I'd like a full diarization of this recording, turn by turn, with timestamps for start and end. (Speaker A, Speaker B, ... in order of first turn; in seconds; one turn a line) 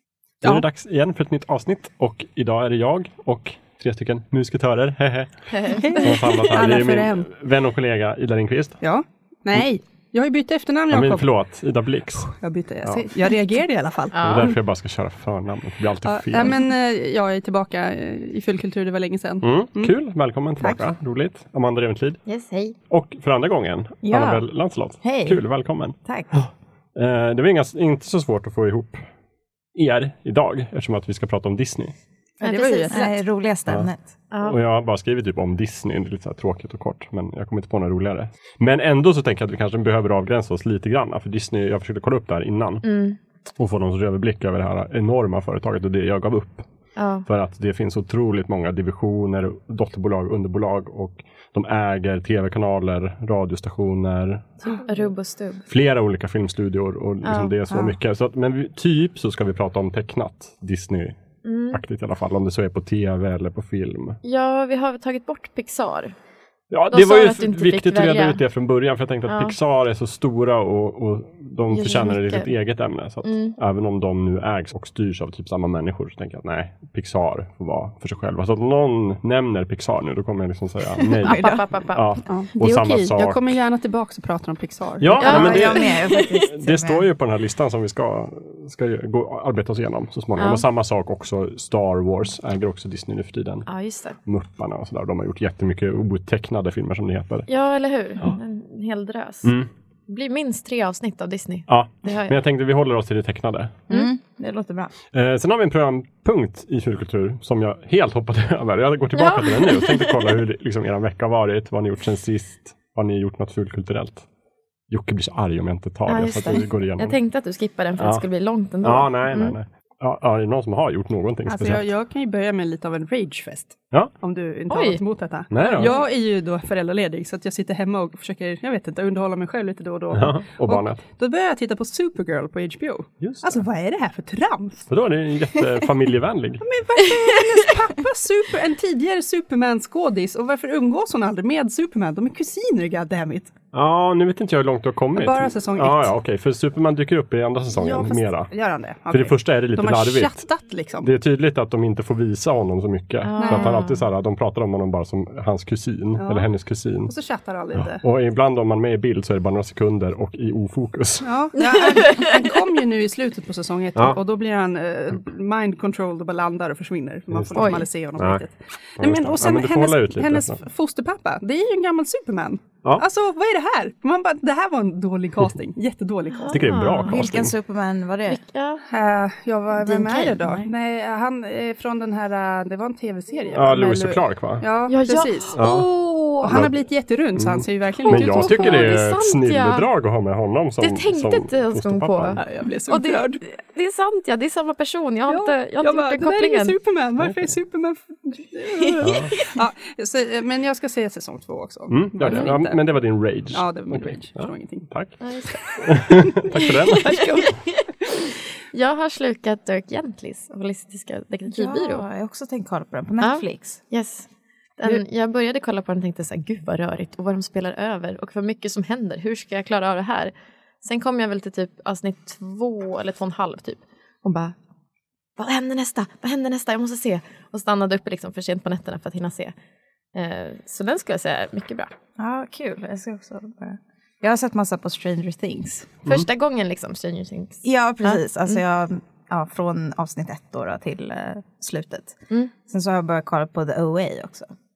Speaker A: 0.4-8.8
Speaker B: 5.5-6.0
Speaker C: 5.8-7.3
Speaker C: 8.8-11.3
Speaker A: 10.9-12.3
Speaker C: 12.2-14.6
Speaker B: 14.1-14.5
Speaker A: 14.2-16.6
Speaker C: 16.0-19.9
Speaker A: 19.4-22.2
Speaker B: 22.2-22.7
Speaker A: 22.9-29.0
Speaker D: 24.0-24.4
Speaker D: 25.0-25.4
Speaker D: 26.0-26.4
Speaker A: 29.7-31.9
Speaker B: 32.4-33.0
Speaker C: 32.4-33.1
Speaker D: 32.9-34.1
Speaker B: 34.3-34.5
Speaker A: 34.4-42.9
Speaker B: 42.8-43.2
Speaker A: 43.4-46.6
Speaker B: 47.0-47.2
Speaker A: 47.2-54.5
Speaker B: 54.6-55.6
Speaker A: 55.7-61.2
Speaker B: 57.2-57.5
Speaker D: 57.7-58.0
Speaker B: 61.4-61.8
Speaker A: 61.7-64.2
Speaker B: 64.2-66.1
Speaker A: 66.7-83.6
Speaker B: 66.9-68.4
Speaker B: 69.2-69.5
Speaker B: 71.7-72.5
Speaker B: 73.2-73.5
Speaker D: 81.1-81.6
Speaker B: 81.2-82.2
Speaker C: 82.2-85.8
Speaker A: 85.0-93.7
Speaker B: 85.2-86.5
Speaker D: 85.2-87.1
Speaker B: 90.4-90.6
Speaker B: 93.7-94.2
Speaker A: 94.2-97.5
Speaker B: 97.5-99.5
Speaker B: 100.1-102.3
Speaker A: 101.7-103.8
Speaker D: 103.9-104.9
Speaker A: 105.1-114.2
Speaker B: 109.1-110.3
Speaker A: 114.9-117.2
Speaker B: 116.1-119.6
Speaker A: 118.0-118.2
Speaker A: 118.8-121.8
Speaker C: 121.5-134.9
Speaker B: 124.7-125.0
Speaker A: 125.5-125.9
Speaker B: 125.6-126.0
Speaker A: 130.1-131.0
Speaker A: 133.2-133.6
Speaker A: 134.9-136.6
Speaker C: 136.6-143.5
Speaker A: 143.7-148.5
Speaker C: 145.1-146.1
Speaker C: 147.7-151.1
Speaker A: 149.1-150.5
Speaker A: 151.0-157.1
Speaker B: 153.2-154.0
Speaker C: 153.4-153.8
Speaker C: 156.2-156.5
Speaker C: 157.1-158.0
Speaker A: 157.7-161.3
Speaker C: 161.2-176.7
Speaker B: 161.6-162.4
Speaker A: 167.3-168.4
Speaker B: 167.5-167.9
Speaker A: 169.0-170.6
Speaker B: 176.4-177.2
Speaker A: 176.5-177.5
Speaker D: 177.0-178.4
Speaker B: 178.3-178.8
Speaker C: 178.9-189.0
Speaker B: 179.8-180.6
Speaker A: 183.5-184.7
Speaker B: 184.9-185.6
Speaker A: 185.6-185.9
Speaker A: 186.4-186.7
Speaker A: 187.3-192.4
Speaker B: 188.0-189.9
Speaker B: 190.8-196.7
Speaker C: 192.3-193.4
Speaker C: 195.3-204.9
Speaker B: 198.7-199.6
Speaker A: 199.0-199.3
Speaker A: 201.9-205.1
Speaker B: 205.2-205.9
Speaker A: 205.7-207.3
Speaker C: 206.1-207.6
Speaker B: 206.5-207.8
Speaker B: 208.7-212.0
Speaker D: 211.5-213.8
Speaker B: 213.2-224.5
Speaker B: 225.4-229.5
Speaker B: 230.1-231.9
Speaker D: 232.2-236.0
Speaker B: 236.0-238.6
Speaker D: 237.6-244.5